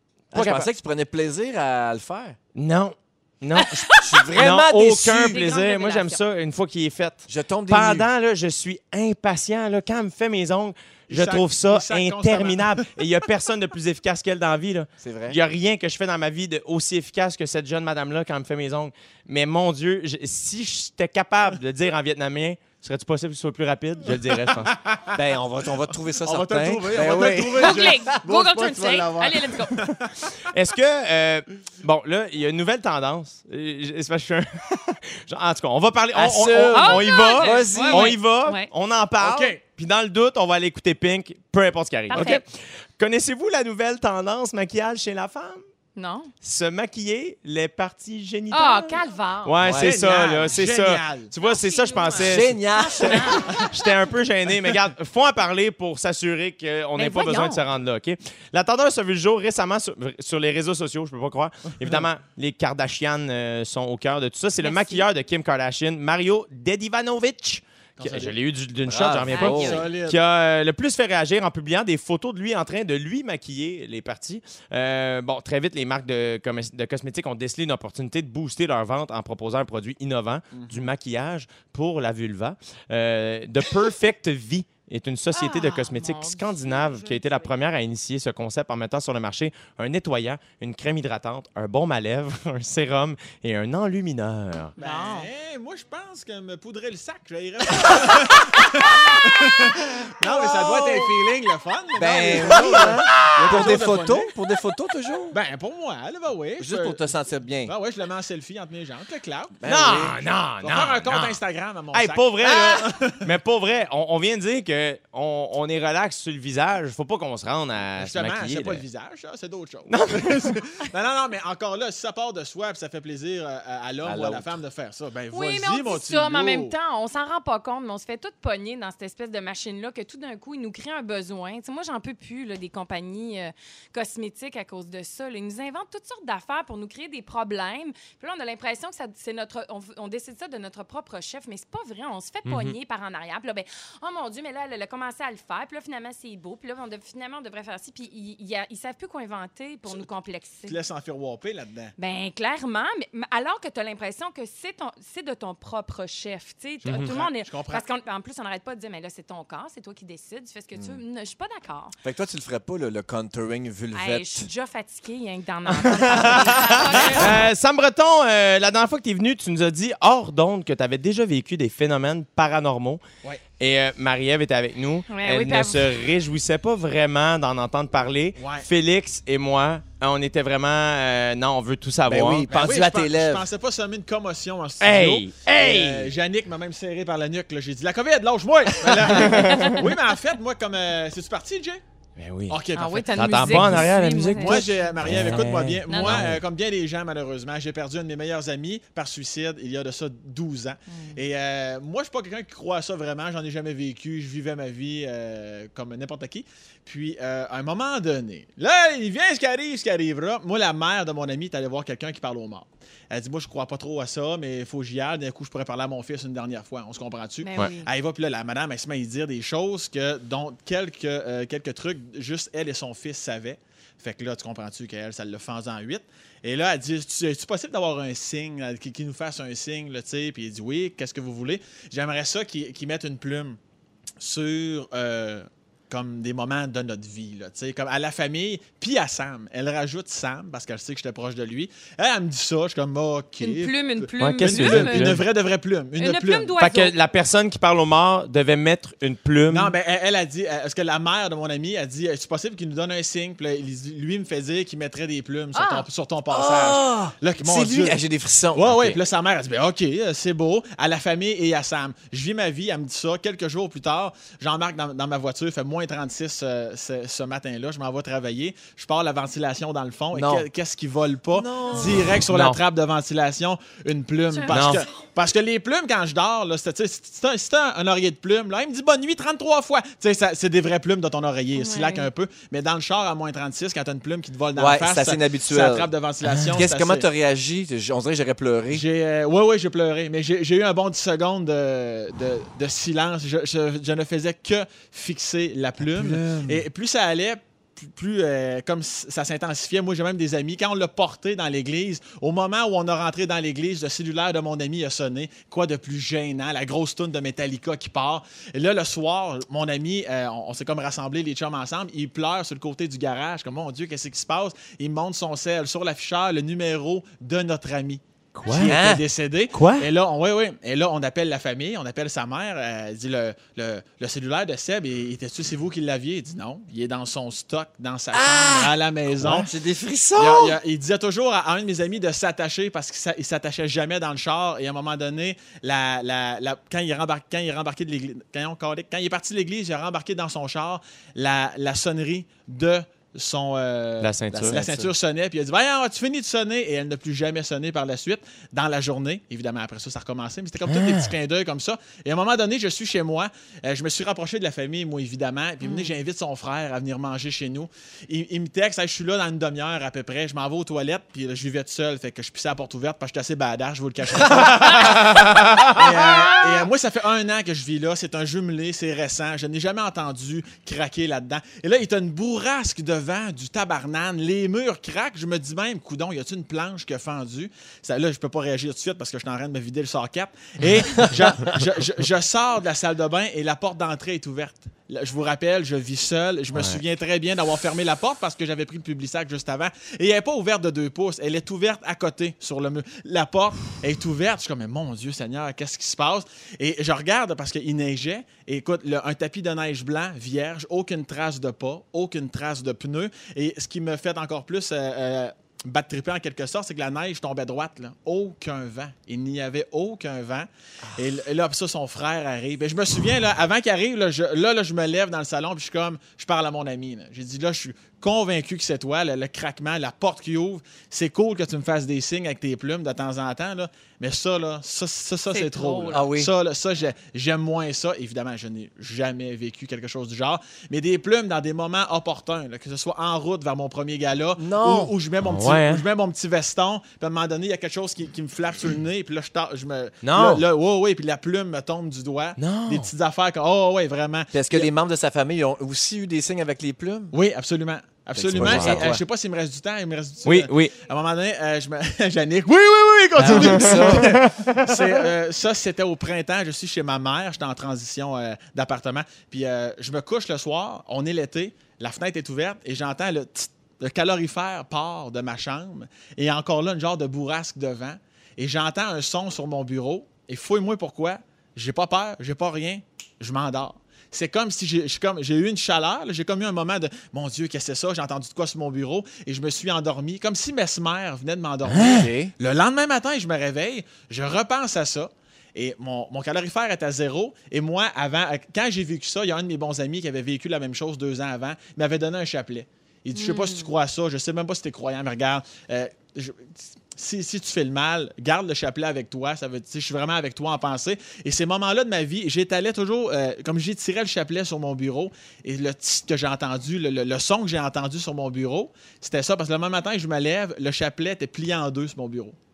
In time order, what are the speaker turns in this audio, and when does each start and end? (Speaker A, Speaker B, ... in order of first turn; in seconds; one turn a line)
Speaker A: 0.3-0.7
Speaker B: 0.3-2.4
Speaker A: 2.5-24.7
Speaker C: 3.6-4.2
Speaker B: 4.0-5.4
Speaker C: 5.1-6.2
Speaker B: 7.3-8.1
Speaker D: 11.1-12.7
Speaker B: 15.0-15.4
Speaker D: 24.7-25.2
Speaker B: 25.1-27.9
Speaker D: 26.2-30.3
Speaker C: 27.6-29.8
Speaker A: 30.4-45.6
Speaker B: 36.1-38.2
Speaker C: 36.7-38.7
Speaker D: 39.2-39.6
Speaker C: 42.1-42.4
Speaker C: 46.0-46.3
Speaker A: 46.4-94.7
Speaker C: 48.5-49.6
Speaker B: 49.6-50.0
Speaker D: 49.7-51.3
Speaker C: 51.4-53.6
Speaker B: 52.2-53.4
Speaker C: 57.0-57.6
Speaker C: 64.6-65.1
Speaker D: 68.0-68.4
Speaker B: 68.9-69.9
Speaker C: 69.3-69.8
Speaker D: 69.6-70.2
Speaker D: 80.5-80.9
Speaker C: 85.3-87.5
Speaker C: 94.8-95.3
Speaker D: 94.8-104.3
Speaker C: 100.3-101.0
Speaker B: 102.0-105.4
Speaker D: 105.3-107.0
Speaker B: 106.6-107.7
Speaker D: 107.7-109.6
Speaker B: 109.6-110.2
Speaker A: 109.7-111.4
Speaker D: 110.6-113.3
Speaker A: 111.9-118.8
Speaker D: 118.0-126.7
Speaker A: 119.9-120.6
Speaker B: 124.0-124.5
Speaker C: 125.3-150.8
Speaker A: 142.5-142.8
Speaker D: 150.7-151.9
Speaker C: 152.0-162.0
Speaker D: 156.8-157.8
Speaker B: 162.0-164.5
Speaker C: 163.9-167.4
Speaker A: 165.7-173.0
Speaker A: 173.6-182.5
Speaker C: 175.1-175.9
Speaker D: 178.4-178.7
Speaker B: 182.1-183.5
Speaker D: 182.5-191.8
Speaker A: 184.8-186.1
Speaker A: 188.8-189.8
Speaker C: 189.3-189.8
Speaker A: 192.2-192.6
Speaker D: 192.5-233.6
Speaker C: 192.8-195.3
Speaker A: 193.2-196.4
Speaker C: 195.9-196.3
Speaker C: 200.9-201.2
Speaker C: 217.4-217.9
Speaker D: 234.2-246.5
Speaker C: 243.4-245.2
Speaker A: 244.2-245.2
Speaker C: 246.0-246.9
Speaker A: 246.6-249.8
Speaker D: 249.5-258.0
Speaker C: 255.5-255.9
Speaker B: 256.3-259.0
Speaker D: 258.5-287.1
Speaker B: 270.1-270.5
Speaker B: 271.3-272.2
Speaker A: 272.3-272.6
Speaker A: 274.5-274.8
Speaker C: 281.6-282.1
Speaker B: 284.6-285.9
Speaker A: 286.2-286.6
Speaker B: 286.5-288.8
Speaker D: 288.7-329.5
Speaker B: 295.8-296.7
Speaker A: 318.4-318.8
Speaker B: 318.5-319.0
Speaker A: 319.5-319.9
Speaker B: 328.1-330.6
Speaker D: 330.1-444.7
Speaker A: 344.0-344.6
Speaker B: 344.3-344.9
Speaker A: 350.7-351.1
Speaker C: 355.6-355.9
Speaker C: 365.8-366.6
Speaker A: 386.5-386.8
Speaker C: 425.3-426.0
Speaker B: 425.9-426.3
Speaker B: 434.4-434.9
Speaker A: 435.2-435.9
Speaker A: 440.0-440.4
Speaker A: 442.4-442.9
Speaker B: 444.3-447.1
Speaker D: 447.1-512.4
Speaker B: 448.1-449.0
Speaker A: 448.4-448.9
Speaker A: 450.2-450.7
Speaker B: 453.2-454.2
Speaker A: 453.2-454.6
Speaker B: 481.7-482.3
Speaker A: 481.8-482.0
Speaker C: 493.1-493.7